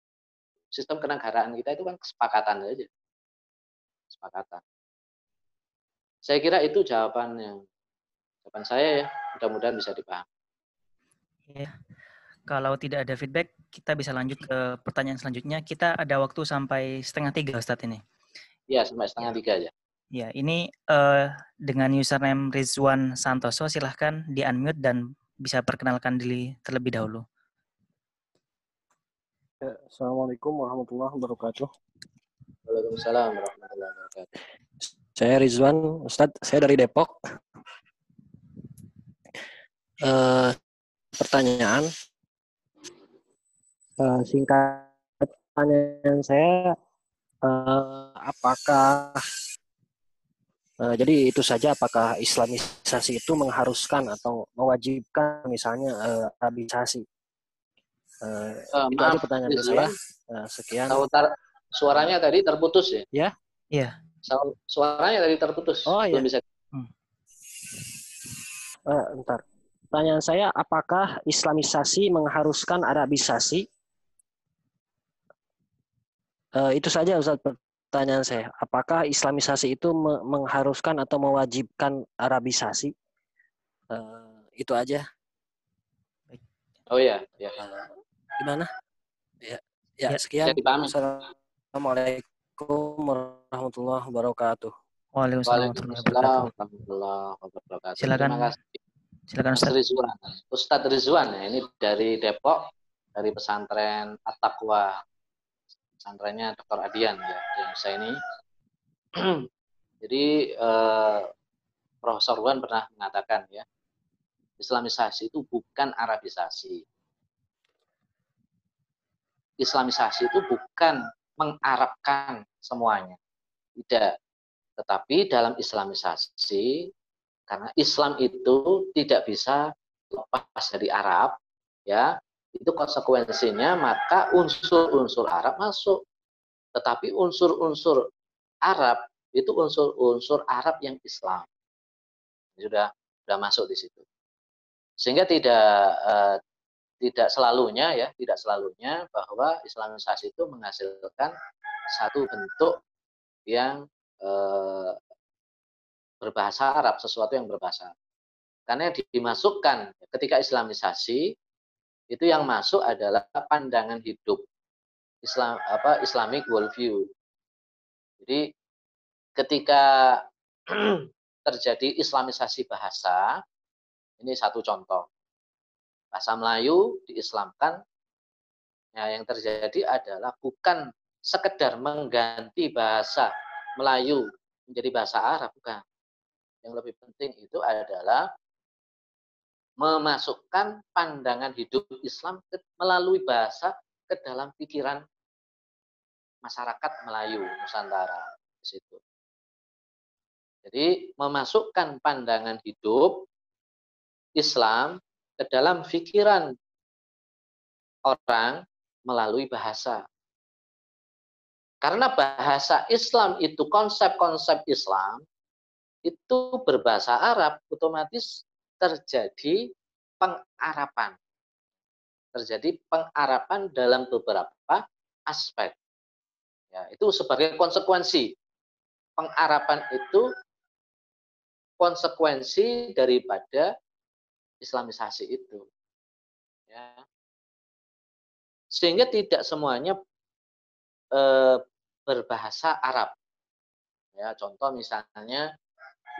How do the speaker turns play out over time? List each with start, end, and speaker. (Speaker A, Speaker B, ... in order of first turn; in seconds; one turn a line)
Speaker A: 0.8-2.9
Speaker A: 4.1-4.6
Speaker A: 6.2-7.6
Speaker A: 8.4-10.2
Speaker B: 11.5-11.7
Speaker B: 12.5-18.0
Speaker A: 18.7-19.7
Speaker B: 20.1-27.2
Speaker C: 29.6-31.7
Speaker A: 32.7-34.3
Speaker C: 35.2-37.2
Speaker C: 40.0-40.6
Speaker C: 41.2-41.9
Speaker C: 44.0-46.7
Speaker C: 47.5-49.2
Speaker C: 50.8-57.0
Speaker C: 58.2-61.0
Speaker A: 58.7-59.9
Speaker A: 60.9-63.0
Speaker A: 64.2-66.4
Speaker C: 65.9-66.3
Speaker C: 68.9-69.4
Speaker C: 69.9-73.7
Speaker C: 76.5-82.9
Speaker C: 83.9-85.0
Speaker A: 86.9-87.6
Speaker C: 87.6-87.9
Speaker C: 88.4-88.7
Speaker C: 89.4-94.7
Speaker A: 90.4-90.9
Speaker B: 95.2-96.5
Speaker A: 95.5-98.8
Speaker B: 98.0-98.5
Speaker B: 99.3-99.7
Speaker A: 99.5-105.0
Speaker A: 106.0-108.2
Speaker A: 110.0-111.3
Speaker A: 112.0-113.7
Speaker A: 114.6-116.8
Speaker A: 119.6-123.2
Speaker A: 123.8-124.1
Speaker A: 124.8-126.8
Speaker A: 127.5-131.4
Speaker A: 131.9-136.0
Speaker A: 136.8-138.0
Speaker A: 138.7-141.5
Speaker A: 142.6-144.0
Speaker A: 145.0-146.4
Speaker A: 147.0-151.3
Speaker A: 151.9-152.8
Speaker A: 153.5-155.0
Speaker A: 156.2-157.9
Speaker A: 158.7-161.2
Speaker A: 162.1-164.4
Speaker A: 165.2-167.1
Speaker A: 169.4-173.4
Speaker A: 174.2-175.1
Speaker A: 176.1-177.8
Speaker A: 179.0-185.8
Speaker A: 186.6-188.2
Speaker A: 189.8-195.0
Speaker A: 196.4-199.0
Speaker A: 200.7-203.2
Speaker A: 204.4-206.5
Speaker A: 208.1-210.0
Speaker A: 211.8-215.2
Speaker A: 216.1-219.6
Speaker A: 220.2-221.2
Speaker A: 222.3-225.8
Speaker A: 226.7-228.3
Speaker A: 229.2-230.2
Speaker A: 231.8-233.7
Speaker A: 234.6-235.6
Speaker A: 236.7-237.0
Speaker A: 238.8-240.0
Speaker A: 241.2-243.1
Speaker A: 244.2-245.5